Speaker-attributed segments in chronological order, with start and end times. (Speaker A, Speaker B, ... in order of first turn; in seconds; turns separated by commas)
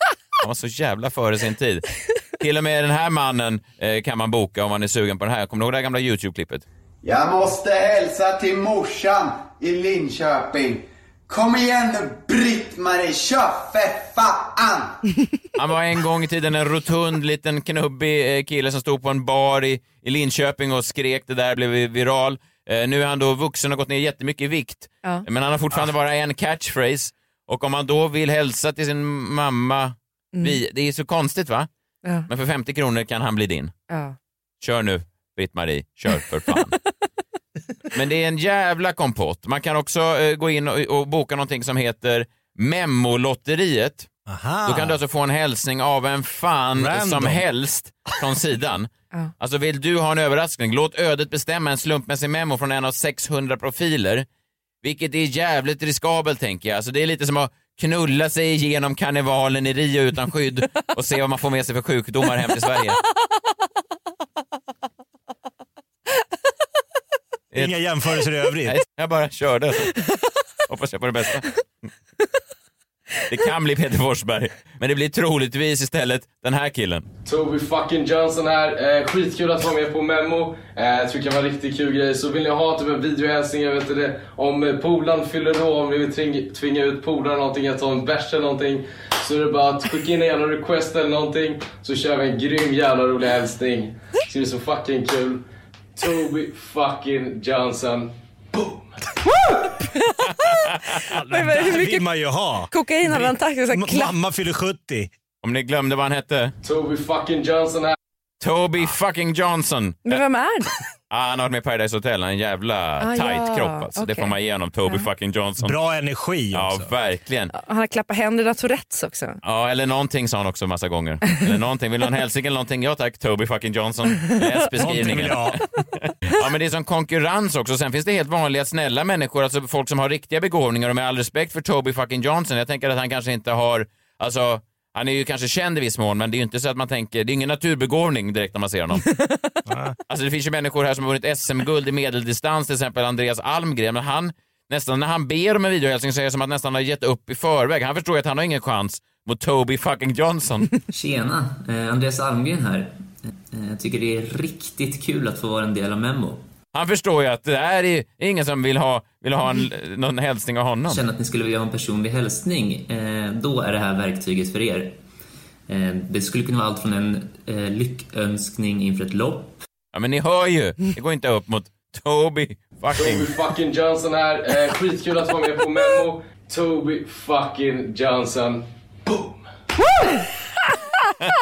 Speaker A: 0.4-1.9, Speaker A: 2.4-6.6, Speaker B: 7.0-15.0, Speaker A: 15.6-31.7, Speaker A: 32.3-33.7, Speaker C: 33.9-34.2, Speaker A: 34.6-36.8, Speaker A: 37.9-44.1, Speaker D: 44.3-45.0, Speaker A: 44.7-48.9, Speaker D: 46.8-47.4, Speaker A: 49.4-54.3, Speaker A: 54.8-63.0, Speaker D: 67.5-68.8, Speaker A: 68.6-70.0, Speaker A: 70.7-71.5, Speaker A: 73.3-77.0, Speaker E: 77.2-98.8, Speaker C: 100.1-100.5, Speaker D: 101.1-105.1, Speaker C: 101.3-102.1, Speaker C: 102.7-104.1, Speaker A: 105.4-106.5, Speaker E: 106.6-108.0, Speaker A: 108.4-110.2, Speaker C: 110.1-110.7, Speaker A: 111.1-115.8, Speaker C: 113.0-114.3, Speaker D: 115.6-116.9, Speaker A: 116.5-117.5, Speaker C: 117.5-119.4, Speaker A: 119.4-125.6, Speaker D: 124.8-125.6, Speaker A: 126.3-139.1, Speaker C: 139.1-139.6, Speaker D: 139.7-140.0, Speaker A: 140.1-150.7, Speaker F: 150.9-156.4, Speaker A: 156.7-161.0, Speaker F: 160.9-165.0, Speaker F: 165.7-169.6, Speaker A: 169.9-173.3, Speaker E: 173.0-178.7